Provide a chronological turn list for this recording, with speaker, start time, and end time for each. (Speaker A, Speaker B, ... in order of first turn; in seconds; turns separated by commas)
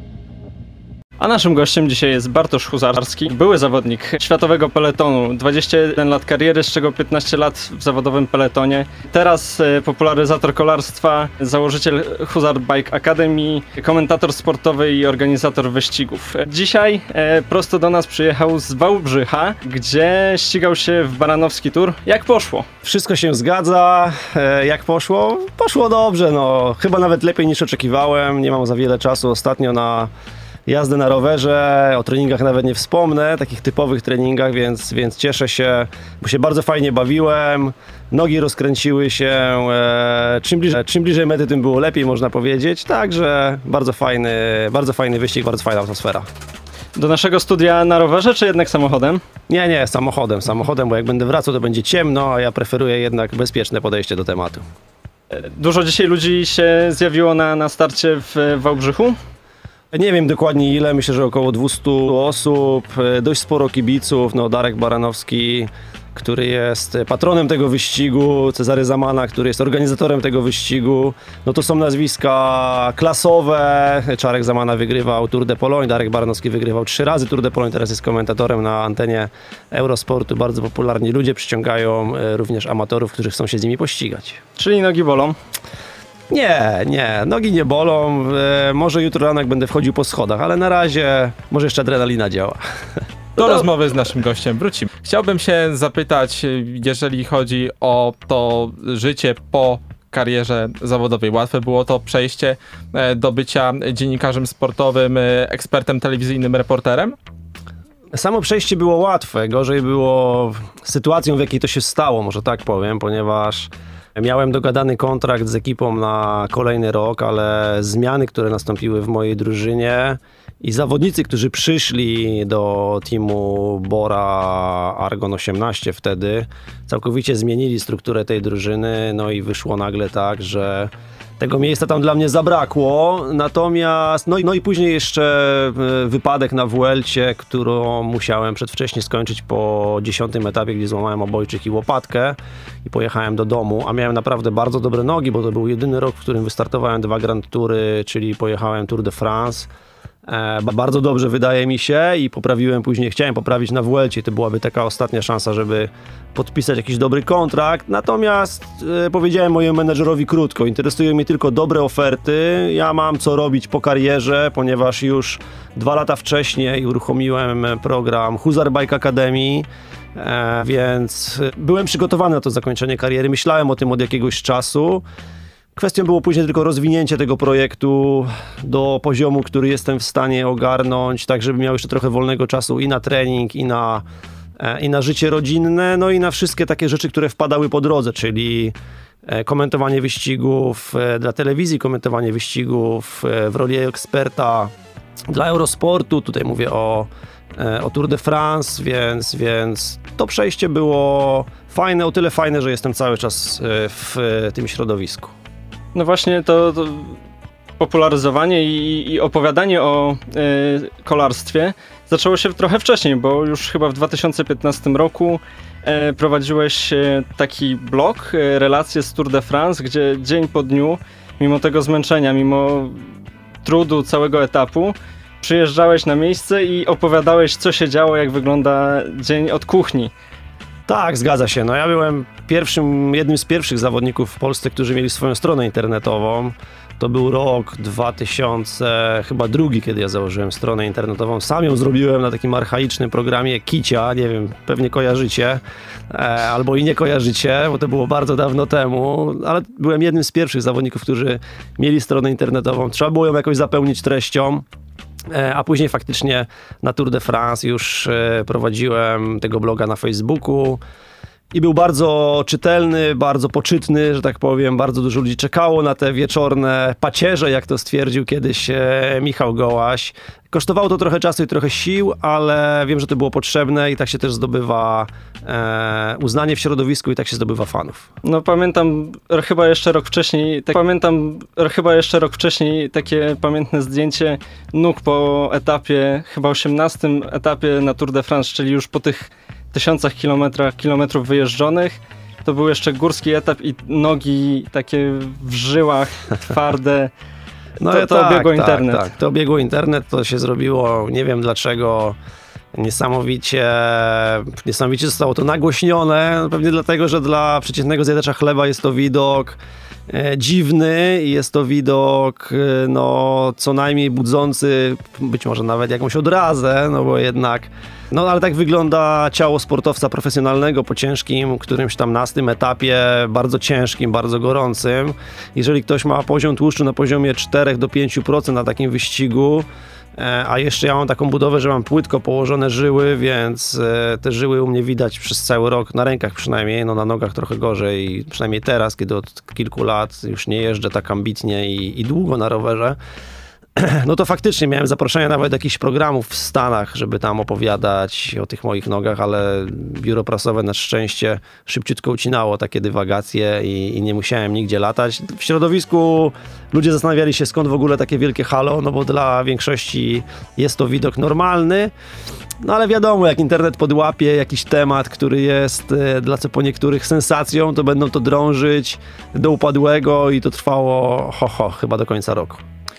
Speaker A: 1.2-22.7, Speaker B: 22.8-30.1, Speaker B: 30.7-46.3, Speaker A: 47.0-49.2, Speaker B: 49.5-54.6, Speaker A: 55.3-59.2, Speaker B: 59.9-84.4, Speaker A: 84.6-85.4, Speaker B: 86.3-93.7, Speaker C: 93.4-107.2, Speaker B: 108.1-149.7, Speaker B: 150.3-175.1, Speaker B: 175.8-184.1, Speaker B: 184.6-188.8, Speaker B: 189.3-194.7, Speaker B: 195.3-205.3, Speaker A: 205.9-207.2, Speaker A: 207.8-223.1, Speaker A: 223.6-230.1, Speaker B: 230.9-254.7, Speaker B: 255.3-260.8, Speaker B: 261.5-278.1, Speaker A: 278.2-297.1, Speaker B: 297.8-302.2, Speaker A: 297.8-299.1, Speaker B: 302.7-343.0, Speaker B: 343.8-361.9, Speaker B: 362.6-372.6